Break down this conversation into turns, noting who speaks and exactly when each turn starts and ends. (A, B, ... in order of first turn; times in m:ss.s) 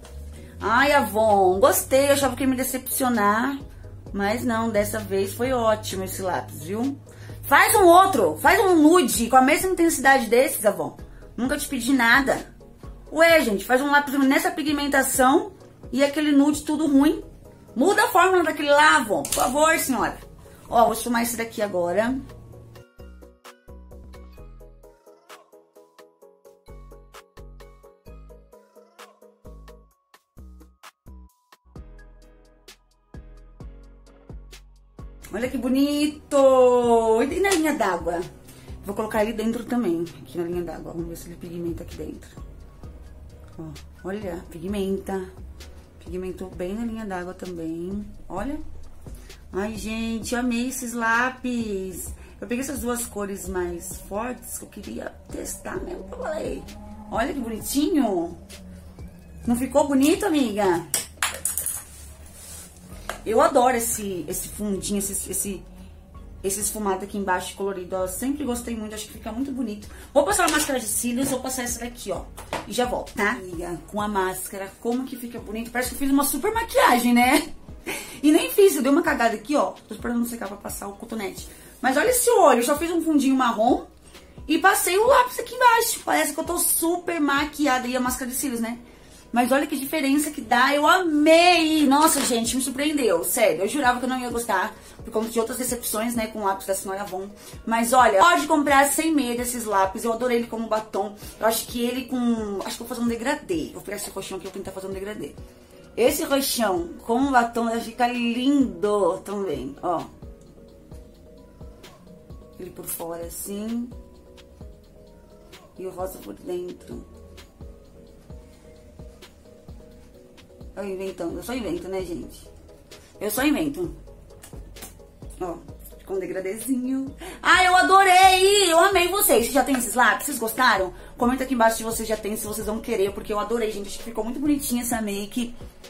0:00.6-0:03.6 A
0:04.1-0:12.5 A
0:13.1-0:22.2 A
0:35.3-0:38.2 A
0:38.8-0:42.4 A
0:43.6-0:45.3 A
0:46.0-0:48.6 A
0:49.5-0:58.4 A
0:59.4-1:00.9 A
1:03.2-1:05.6 A
1:06.4-1:23.9 A
1:24.5-1:28.8 A
1:29.3-1:45.4 A
1:46.0-1:50.1 A
1:52.6-1:53.9 A
1:55.8-1:57.1 A
2:00.8-2:02.5 A
2:03.2-2:04.0 A
2:05.4-2:15.5 A